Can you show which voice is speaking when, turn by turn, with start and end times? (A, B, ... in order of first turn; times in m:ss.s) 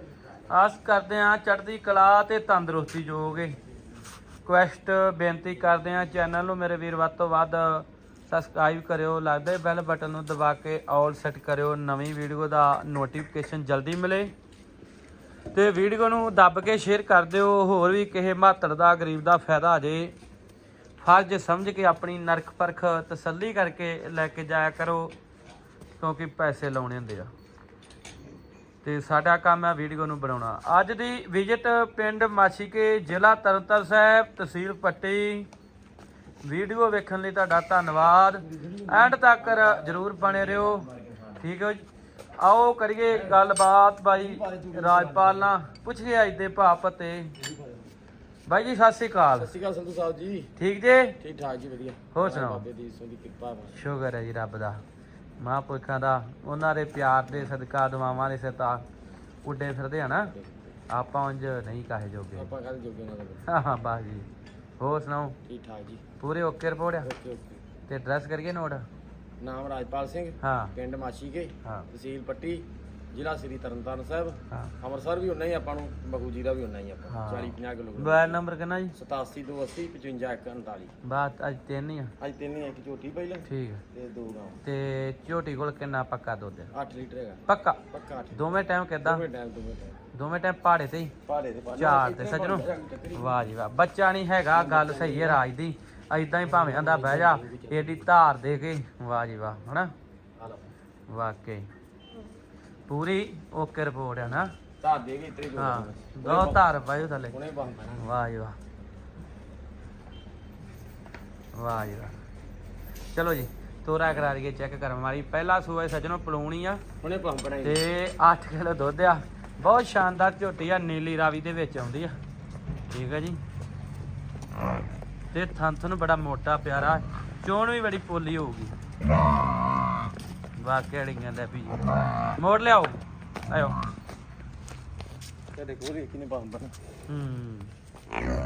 0:00.4-0:03.6 A
0:04.4-0:14.3 A
0:15.5-0:20.2 A
0:21.0-0:25.2 A
0:26.0-0:27.3 A
0:28.8-0:35.5 A
0:36.4-0:40.9 A
0:38.3-0:41.4 B
0:41.4-0:41.8 A
0:42.4-0:47.4 A
0:43.1-0:43.4 B
0:44.1-0:45.6 B
0:47.4-0:47.9 B
0:48.5-0:49.5 A
0:49.3-0:50.5 B
0:50.6-0:51.2 A
0:51.2-0:53.8 B
0:52.1-0:52.6 A
0:53.8-0:54.8 A
0:55.4-0:58.9 A
0:57.3-0:57.6 B
0:59.4-1:00.3 A
1:00.2-1:00.8 B
1:00.9-1:02.5 A
1:02.4-1:03.5 B
1:03.5-1:04.3 A
1:04.8-1:05.4 A
1:05.4-1:06.0 B
1:06.2-1:07.1 A
1:07.0-1:07.6 B
1:07.9-1:08.9 A
1:09.4-1:18.4 B
1:10.4-1:10.7 A
1:17.1-1:19.0 A
1:19.0-1:20.9 B
1:21.0-1:22.1 A
1:22.2-1:24.6 B
1:23.5-1:23.8 A
1:24.6-1:26.7 A
1:26.7-1:30.0 B
1:27.5-1:29.2 A
1:30.1-1:31.1 A
1:31.3-1:33.5 B
1:31.8-1:39.9 A
1:34.5-1:35.4 B
1:36.4-1:38.1 B
1:40.4-1:40.7 B
1:41.1-1:41.7 A
1:42.9-1:44.6 A
1:44.8-1:46.7 B
1:45.6-1:47.4 A
1:47.3-1:48.1 B
1:48.0-1:48.6 A
1:51.5-1:52.2 A
1:53.1-1:56.8 A
1:57.0-1:57.8 B
1:57.6-2:02.2 A
2:02.9-2:03.4 A
2:05.3-2:08.8 A
2:10.6-2:13.8 A
2:15.5-2:16.8 B
2:17.1-2:17.7 A